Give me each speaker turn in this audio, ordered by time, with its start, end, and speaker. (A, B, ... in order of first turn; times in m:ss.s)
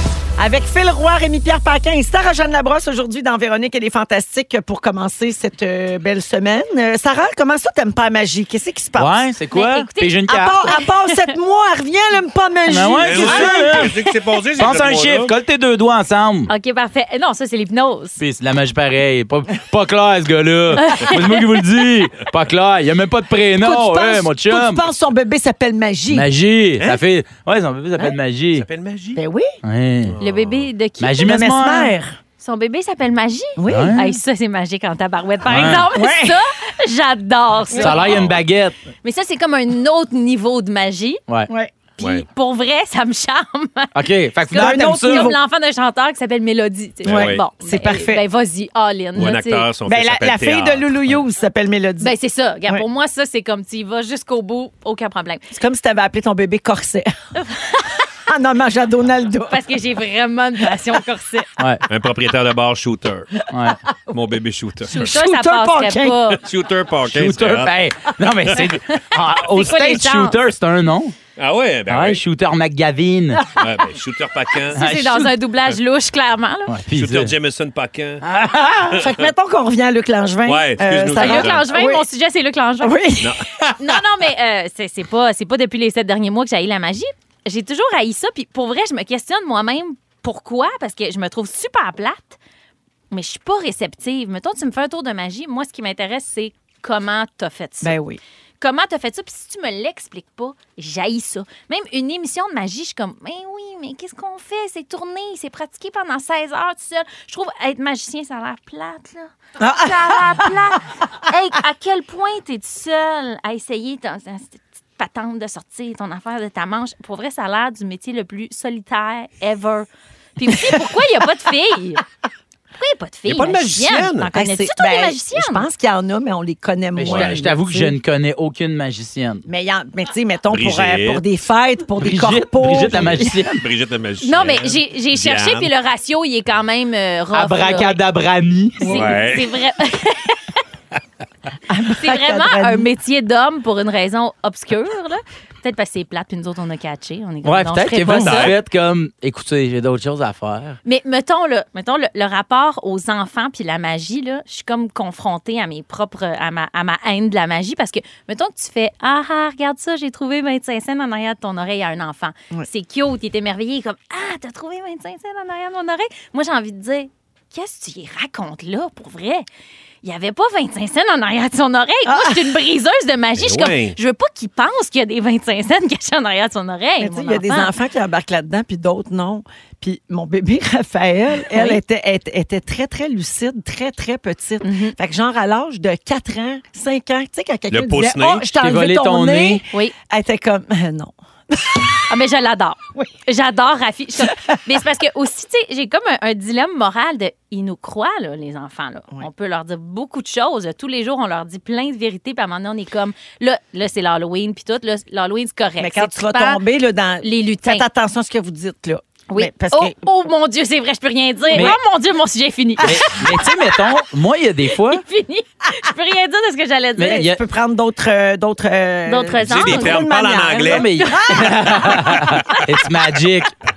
0:00.4-0:09.2 A
0:09.0-0:10.6 B
0:09.5-0:11.3 C
0:10.3-0:13.9 A
0:12.7-0:13.9 B
0:13.0-0:15.3 D
0:14.6-0:16.5 B
0:16.5-0:18.2 C
0:18.2-0:24.8 B
0:20.8-0:21.4 C
0:23.6-0:26.3 A
0:26.1-0:28.6 B
0:28.5-0:29.2 D
0:29.2-0:29.5 A
0:29.6-0:30.2 B
0:30.0-0:30.7 D
0:30.2-0:31.4 C
0:31.0-0:31.9 B
0:31.2-0:32.2 A
0:32.4-0:38.1 C
0:33.6-0:34.0 A
0:33.7-0:34.1 B
0:35.5-0:35.9 B
0:35.6-0:36.4 A
0:37.8-0:38.8 B
0:38.0-0:38.4 D
0:39.0-0:41.2 C
0:42.0-0:43.9 C
0:42.0-0:42.3 D
0:44.0-0:45.3 B
0:44.5-0:49.7 C
0:44.5-0:45.4 A
0:47.0-0:47.4 D
0:47.0-0:48.2 A
0:49.2-0:50.9 D
0:49.9-0:52.1 A
0:52.0-0:55.4 C
0:55.5-0:57.1 A
0:58.3-0:59.6 A
0:59.5-1:01.5 C
1:01.9-1:03.3 D
1:03.5-1:03.8 B
1:04.1-1:05.1 D
1:04.9-1:06.4 A
1:04.9-1:06.4 C
1:06.4-1:07.7 D
1:07.1-1:11.2 B
1:09.4-1:10.4 C
1:11.4-1:12.2 D
1:11.9-1:13.4 B
1:13.6-1:14.8 D
1:14.7-1:15.3 B
1:14.7-1:16.7 C
1:16.7-1:17.3 B
1:16.9-1:18.2 D
1:18.5-1:22.0 A
1:20.5-1:21.7 D
1:21.2-1:23.0 C
1:22.8-1:23.4 A
1:23.2-1:23.7 D
1:23.8-1:32.4 C
1:33.1-1:38.0 C
1:37.8-1:38.2 A
1:38.6-2:02.0 C
1:49.6-1:50.8 A
2:02.8-2:05.7 C
2:03.3-2:04.3 D
2:04.3-2:08.0 A
2:07.0-2:09.4 B
2:07.0-2:07.4 D
2:09.5-2:13.3 A
2:10.5-2:11.2 D
2:12.0-2:13.6 B
2:13.0-2:15.7 D
2:14.2-2:18.0 C
2:17.3-2:19.0 B
2:18.8-2:20.6 C
2:18.8-2:19.1 A
2:18.9-2:19.5 D
2:21.7-2:22.9 A
2:21.9-2:28.5 C
2:27.4-2:30.8 B
2:28.1-2:28.6 D
2:30.8-2:49.5 C
2:50.0-2:57.7 C
2:52.1-2:52.5 A
2:53.4-2:54.0 D
2:57.0-3:11.9 A
3:01.5-3:01.8 C
3:04.6-3:05.0 C
3:07.7-3:08.5 D
3:08.6-3:09.6 B
3:12.1-3:26.6 C
3:25.8-3:30.0 A
3:27.2-3:27.8 C
3:29.3-3:33.2 C
3:31.5-3:31.8 A
3:31.5-3:31.8 B
3:32.8-3:35.0 B
3:34.8-3:37.3 C
3:37.0-3:37.4 B
3:37.0-3:41.7 A
3:39.1-3:40.0 C
3:39.4-3:40.9 D
3:40.7-3:43.5 B